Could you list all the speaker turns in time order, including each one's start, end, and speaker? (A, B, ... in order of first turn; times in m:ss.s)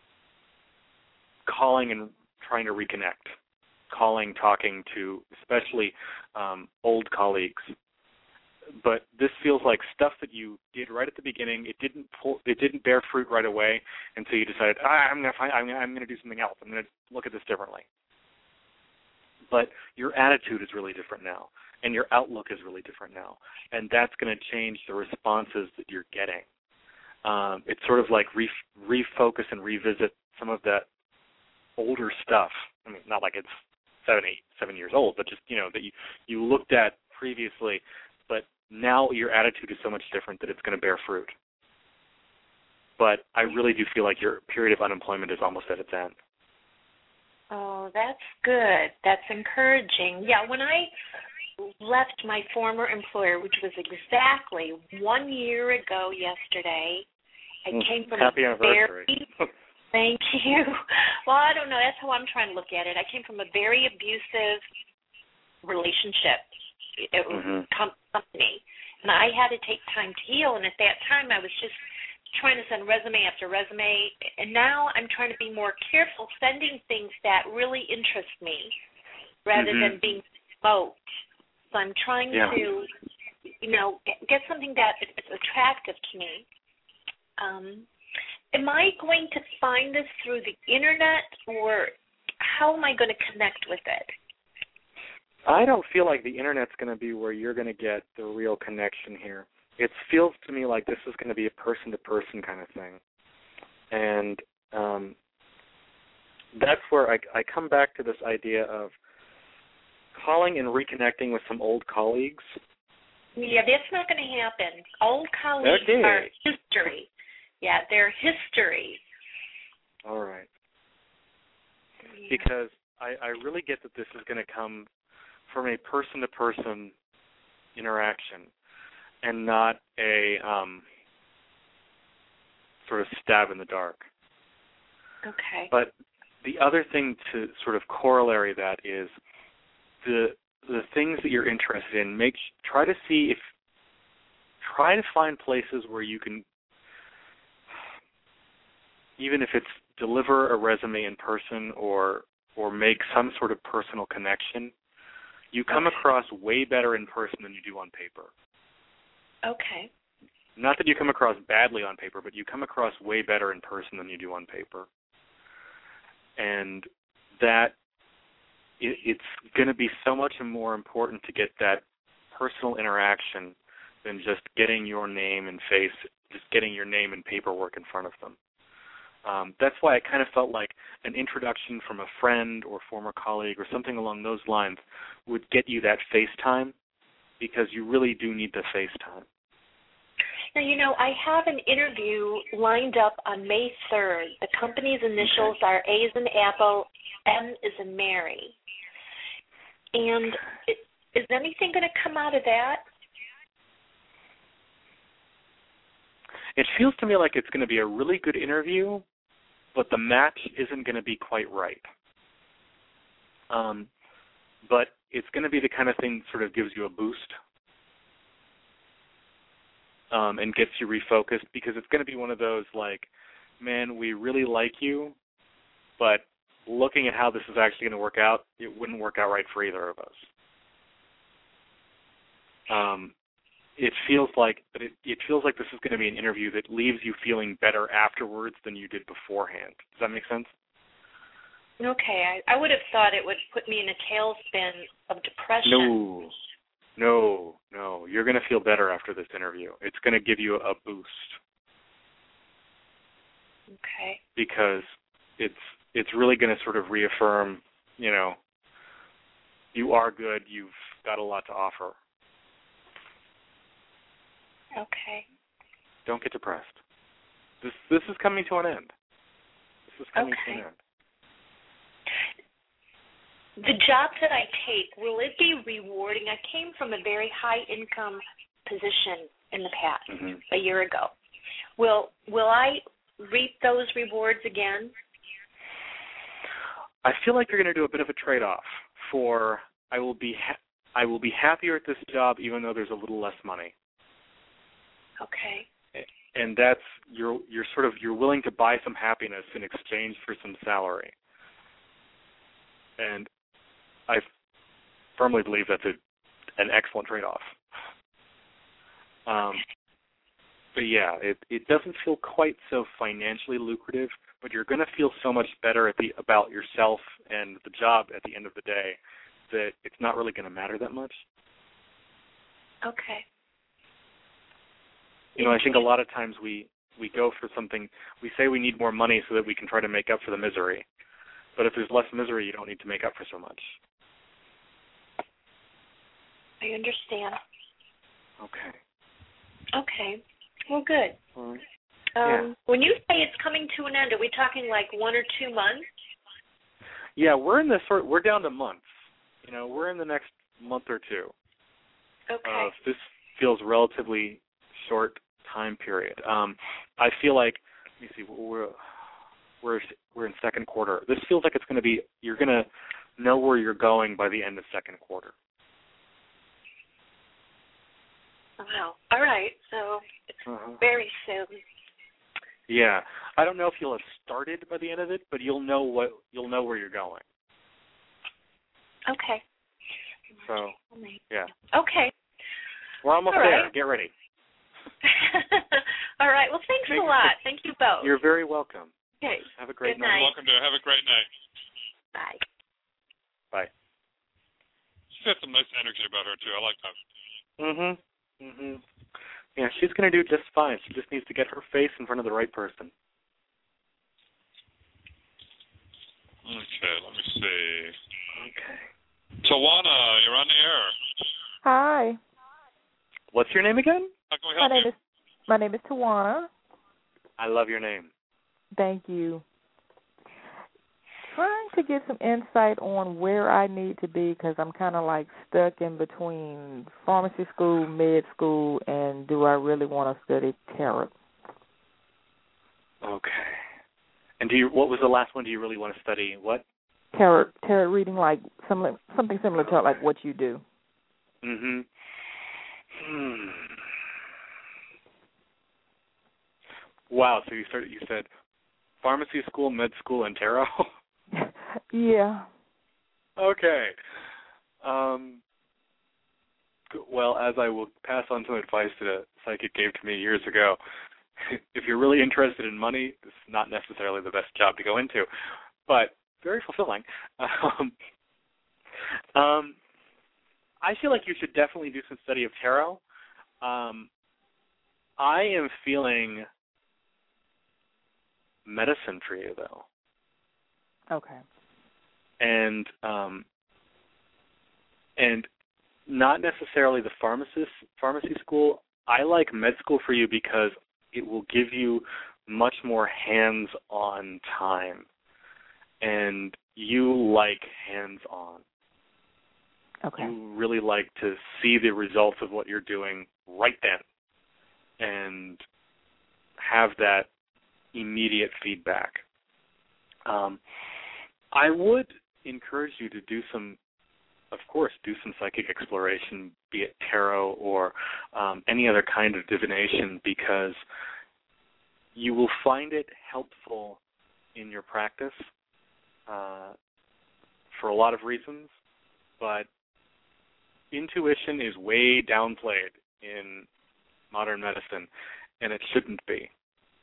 0:01.4-0:03.3 A
0:03.9-0:07.7 A
0:08.8-0:17.8 A
0:19.5-0:26.4 A
0:27.2-0:30.9 A
0:31.8-0:41.3 A
0:43.0-0:46.1 A
0:47.5-0:50.9 B
0:51.7-0:57.0 B
0:57.6-0:59.3 B
0:57.7-0:59.4 A
0:59.9-1:04.6 B
1:05.6-1:06.5 B
1:07.0-1:11.8 B
1:07.3-1:07.6 A
1:12.3-1:18.7 B
1:19.4-1:21.0 B
1:19.5-1:20.0 A
1:21.7-1:22.9 B
1:22.3-1:22.6 A
1:23.6-1:26.4 B
1:27.4-1:27.9 B
1:28.5-1:34.1 B
1:35.4-1:43.0 A
1:43.9-1:45.2 A
1:46.5-1:48.9 A
1:50.2-1:52.6 A
1:53.4-1:57.1 B
1:55.6-1:56.3 A
1:57.6-1:59.0 B
2:00.0-2:00.5 A
2:02.1-2:02.4 B
2:02.3-2:04.9 A
2:05.5-2:06.9 A
2:07.8-2:08.5 A
2:09.2-2:10.8 A
2:12.8-2:14.0 A
2:15.2-2:15.7 B
2:16.4-2:19.1 A
2:20.0-2:23.4 A
2:24.6-2:26.4 A
2:29.2-2:34.7 A
2:35.5-2:38.3 A
2:35.7-2:36.0 B
2:39.4-2:39.9 B
2:40.6-2:44.9 A
2:46.4-2:46.9 A
2:47.4-2:47.7 A
2:48.8-2:58.4 A
2:59.2-3:06.7 A
3:07.4-3:09.2 A
3:10.5-3:18.6 B
3:15.2-3:15.5 A
3:19.9-3:22.8 B
3:26.6-3:29.0 A
3:29.7-3:31.9 A
3:33.5-3:33.9 A
3:34.6-3:37.4 A
3:40.1-3:43.1 A
3:43.6-3:45.1 A
3:46.0-3:50.3 A
3:52.7-3:53.1 A
3:53.8-4:00.5 A
4:01.8-4:06.0 B
4:05.6-4:06.3 A
4:07.0-4:11.4 A
4:13.7-4:14.2 B
4:14.4-4:18.4 A
4:19.7-4:22.0 A
4:24.8-4:25.2 B
4:26.0-4:26.8 A
4:27.6-4:28.9 A
4:29.9-4:30.8 A
4:30.1-4:30.6 B
4:33.6-4:41.1 B
4:40.1-4:40.4 A
4:41.8-4:44.9 B
4:47.0-4:53.7 A
4:55.2-4:55.7 B
4:55.9-5:01.1 A
5:03.0-5:03.3 A
5:05.2-5:06.0 A
5:06.6-5:07.6 A
5:09.3-5:09.6 A
5:10.7-5:19.0 A
5:19.5-5:21.2 A
5:22.8-5:23.2 B
5:25.4-5:30.8 A
5:25.4-5:25.9 B
5:31.6-5:33.8 A
5:36.6-5:37.4 B
5:38.4-5:38.8 A
5:39.7-5:41.2 B
5:41.4-5:41.6 A
5:42.2-5:45.9 B
5:42.2-5:42.5 A
5:47.2-5:51.3 A
5:52.3-5:52.7 B
5:52.4-5:58.8 A
5:59.6-6:05.3 A
6:08.6-6:10.3 B
6:10.5-6:10.8 A
6:10.8-6:11.6 B
6:12.7-6:17.2 A
6:19.1-6:19.4 B
6:20.4-6:20.7 A
6:20.9-6:22.1 B
6:23.0-6:24.1 A
6:23.3-6:23.7 B
6:25.0-6:28.1 B
6:26.9-6:27.4 A
6:28.0-6:28.9 A
6:29.2-6:30.3 B
6:29.5-6:30.3 A
6:30.0-6:31.3 C
6:32.1-6:32.4 B
6:35.1-6:37.0 C
6:37.6-6:38.8 A
6:39.6-6:42.9 A
6:46.4-6:48.0 C
6:48.3-6:48.8 A
6:49.4-6:51.0 C
6:51.6-6:52.2 D
6:53.3-6:54.1 A
6:54.3-6:54.9 C
6:54.6-6:55.0 D
6:55.5-6:56.5 D
6:57.4-6:58.1 A
6:58.7-6:59.4 D
7:01.3-7:11.1 D
7:13.0-7:13.6 A
7:14.4-7:16.6 A
7:17.1-7:20.6 D
7:19.6-7:20.0 A
7:21.4-7:21.9 A
7:23.0-7:23.8 A
7:27.1-7:28.3 A
7:29.0-7:30.9 A
7:31.3-7:32.5 D
7:33.4-7:33.9 A
7:34.8-7:35.4 A
7:36.9-7:40.8 A
7:41.4-7:45.3 A
7:45.9-7:47.9 A
7:49.3-7:49.8 A
7:50.8-7:53.0 A
7:53.6-7:54.1 A
7:55.2-7:56.5 A
7:58.6-7:59.8 A
8:01.1-8:01.4 D
8:02.4-8:03.4 A
8:05.2-8:05.5 A
8:06.1-8:15.1 A
8:16.0-8:18.6 A
8:20.0-8:20.3 D
8:20.2-8:24.0 A
8:25.0-8:25.6 A
8:26.6-8:27.3 A
8:27.9-8:29.2 A
8:30.2-8:30.6 A
8:31.5-8:33.8 A
8:34.5-8:40.8 A
8:42.1-8:44.0 A
8:44.5-8:45.5 A
8:46.3-8:46.7 A
8:47.7-8:48.7 A
8:49.4-8:49.7 A
8:50.9-8:53.7 A
8:54.3-8:55.1 A
8:55.6-8:56.5 A